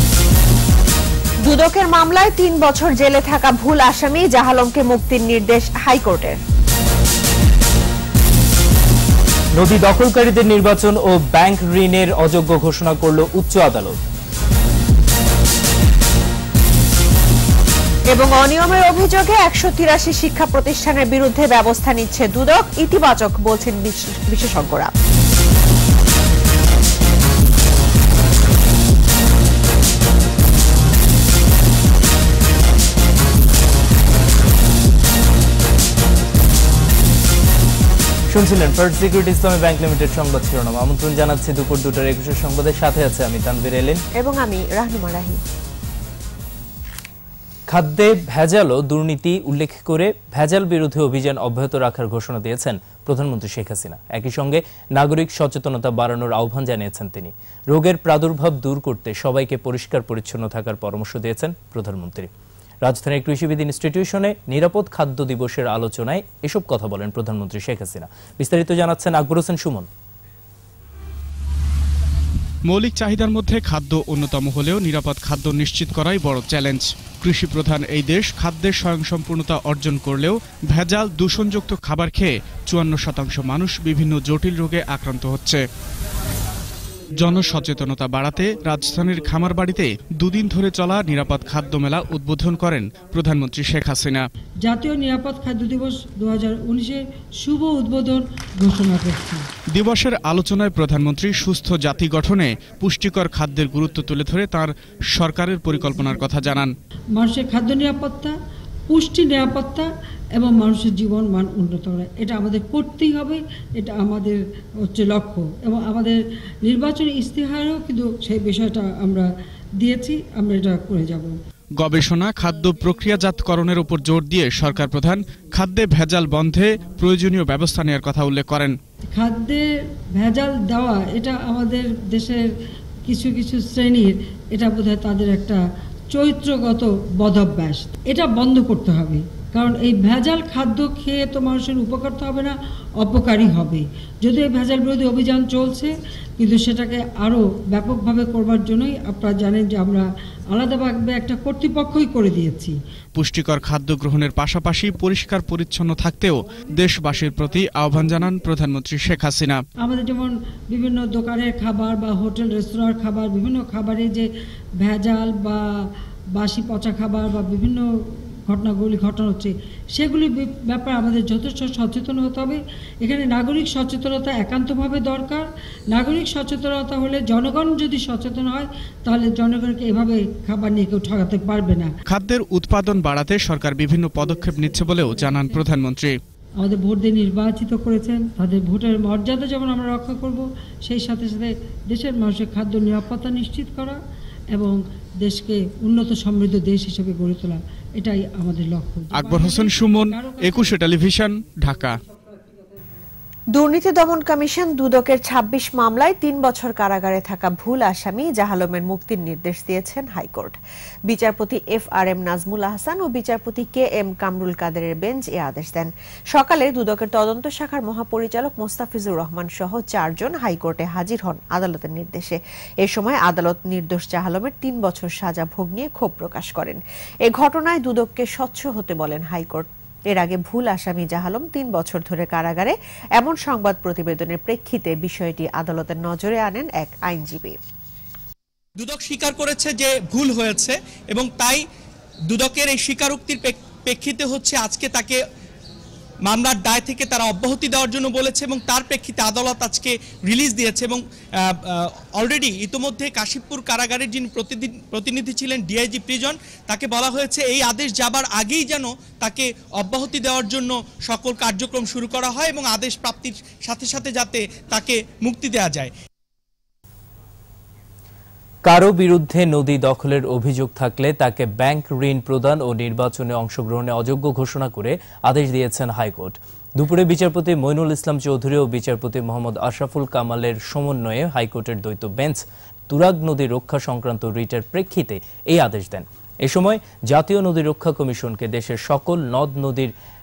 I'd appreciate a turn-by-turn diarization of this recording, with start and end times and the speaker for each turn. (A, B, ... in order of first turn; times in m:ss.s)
0:01.4-0:06.4 A
0:09.6-0:14.0 B
0:18.1-0:24.9 A
0:38.3-0:44.0 B
0:44.2-0:45.4 A
0:47.7-1:02.3 B
1:02.8-1:09.9 B
1:12.7-1:25.6 C
1:27.2-1:34.2 C
1:34.6-1:39.5 D
1:39.7-1:46.7 C
1:47.2-1:48.4 D
1:48.9-1:59.3 D
1:59.8-2:01.3 D
2:01.8-2:08.8 C
2:09.1-2:12.5 D
2:13.0-2:32.8 D
2:33.2-2:39.6 C
2:39.8-2:44.3 D
2:44.8-2:45.6 D
2:46.4-2:47.9 D
2:48.5-3:01.9 D
3:02.1-3:06.2 C
3:06.6-3:14.0 D
3:14.5-3:20.7 D
3:19.1-3:22.0 C
3:23.5-3:57.6 A
3:58.8-4:01.7 E
4:02.3-4:05.2 E
4:06.2-4:25.9 E
4:28.6-4:49.9 B